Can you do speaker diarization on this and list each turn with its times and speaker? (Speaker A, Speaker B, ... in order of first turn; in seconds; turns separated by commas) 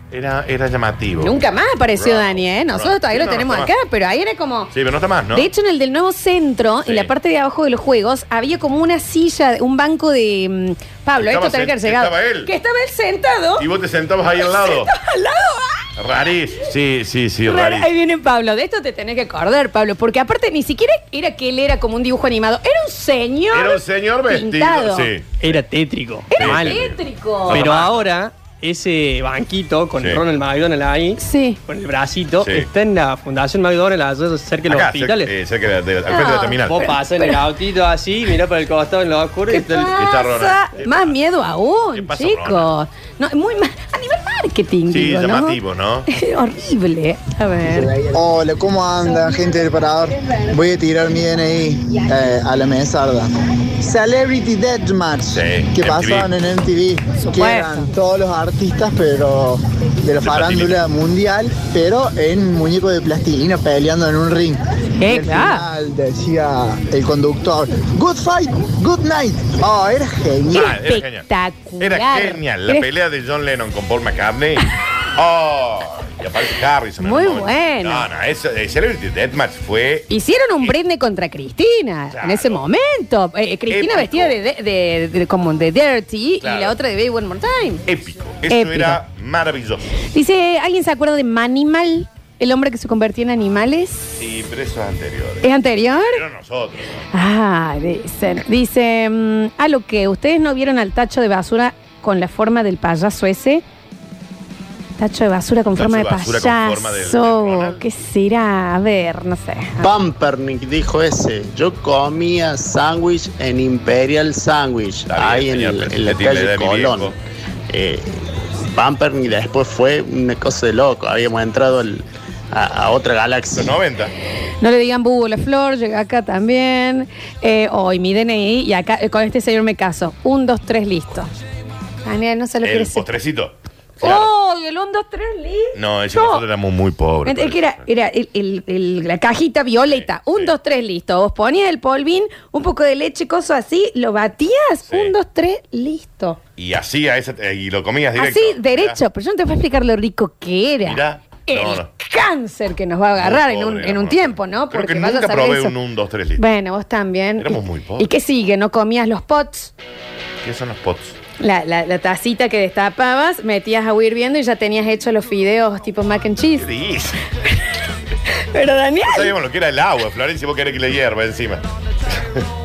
Speaker A: 0.1-1.4, Speaker B: 1.2-4.7, Speaker A: 1.9-3.7, Speaker A: 4.7-5.5, Speaker B: 5.3-13.7, Speaker A: 6.8-7.1, Speaker A: 11.2-12.5, Speaker A: 13.6-14.9, Speaker B: 14.4-15.8, Speaker A: 16.0-17.9, Speaker B: 17.5-25.1, Speaker A: 23.5-25.6, Speaker C: 25.4-26.8, Speaker B: 26.3-27.8, Speaker A: 26.3-28.1, Speaker C: 27.5-35.3, Speaker A: 30.0-30.2, Speaker B: 31.2-31.6, Speaker A: 32.4-32.7, Speaker A: 34.6-36.9, Speaker B: 36.1-37.4, Speaker C: 36.7-39.9, Speaker B: 39.5-47.9, Speaker A: 40.0-41.2, Speaker A: 41.9-42.7, Speaker A: 44.9-46.1, Speaker D: 48.0-49.8, Speaker D: 51.2-52.6, Speaker A: 55.3-56.3, Speaker B: 57.2-57.9, Speaker D: 57.3-58.0, Speaker A: 60.2-60.8, Speaker B: 65.0-65.6, Speaker D: 65.1-65.8, Speaker A: 70.5-71.3, Speaker B: 70.5-72.9, Speaker A: 71.8-80.8, Speaker B: 77.0-78.1, Speaker B: 80.1-87.8, Speaker A: 82.1-82.6, Speaker A: 83.7-84.4, Speaker A: 86.4-86.8, Speaker A: 87.9-90.0, Speaker B: 88.5-89.0, Speaker B: 90.1-94.2, Speaker A: 94.2-97.1, Speaker B: 95.4-96.2, Speaker B: 97.1-103.6, Speaker B: 105.0-109.8, Speaker A: 105.8-107.8, Speaker E: 109.8-117.1, Speaker A: 115.1-117.2, Speaker E: 117.7-118.1, Speaker E: 118.7-123.7, Speaker A: 123.5-124.1, Speaker B: 124.6-131.3, Speaker B: 132.0-133.1, Speaker A: 132.6-134.3, Speaker B: 134.0-136.4, Speaker A: 135.8-137.8, Speaker B: 137.2-146.4, Speaker A: 139.8-140.5, Speaker A: 144.9-145.2, Speaker A: 146.6-149.0, Speaker B: 148.2-155.8, Speaker A: 150.8-151.9, Speaker A: 153.2-156.4, Speaker B: 156.4-159.7, Speaker A: 157.4-158.1, Speaker A: 160.4-161.2, Speaker B: 161.4-166.7, Speaker A: 166.6-167.2, Speaker B: 168.5-169.3, Speaker A: 169.1-171.6